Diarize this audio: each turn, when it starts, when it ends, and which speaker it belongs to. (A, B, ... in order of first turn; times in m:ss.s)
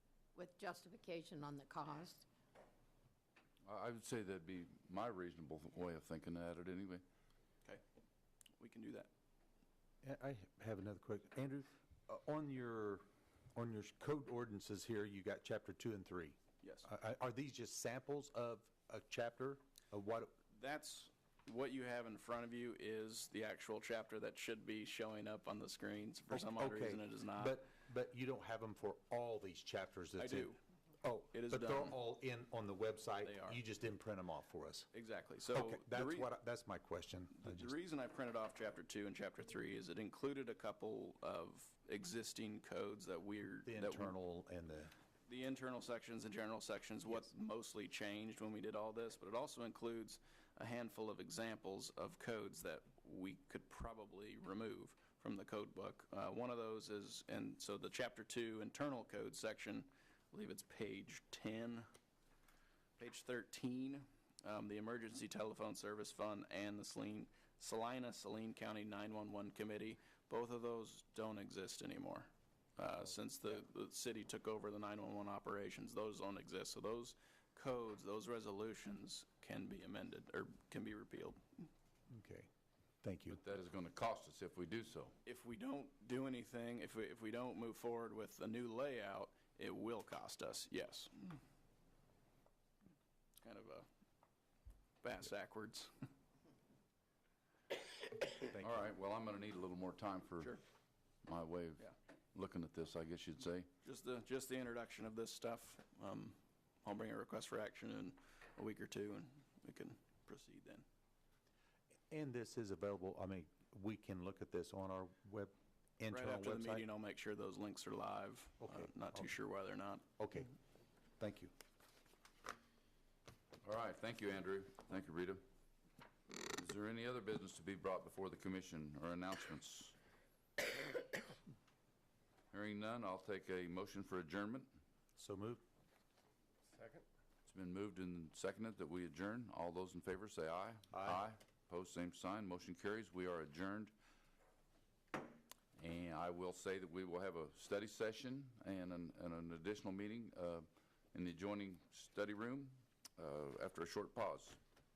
0:00.3-0:02.2 A
0:03.6-0:07.0 B
0:08.6-0:09.1 C
0:10.0-0:20.3 D
0:16.6-0:16.9 C
0:20.5-0:27.6 C
0:26.3-0:34.9 D
0:30.2-0:30.6 C
0:31.3-0:32.0 C
0:33.2-0:33.6 C
0:34.9-0:36.3 C
0:35.5-0:37.7 D
0:37.4-0:44.1 C
0:43.6-0:44.9 D
0:45.3-1:01.9 C
1:03.0-1:21.7 C
1:22.1-1:22.5 D
1:23.0-1:23.4 D
1:23.3-1:25.1 B
1:25.2-1:31.4 C
1:33.3-1:33.9 C
1:35.0-1:35.9 C
1:38.5-1:38.9 D
1:38.6-1:40.6 B
1:41.2-1:43.7 B
1:43.8-1:50.8 C
1:52.1-1:56.9 D
1:56.1-2:00.0 C
1:58.6-1:59.3 D
2:00.2-2:00.5 D
2:01.2-2:01.5 D
2:03.6-2:05.4 B
2:06.5-2:09.9 B
2:12.5-2:14.7 B
2:15.2-2:15.6 D
2:17.4-2:23.9 B
2:20.9-2:21.2 D
2:25.8-2:34.6 B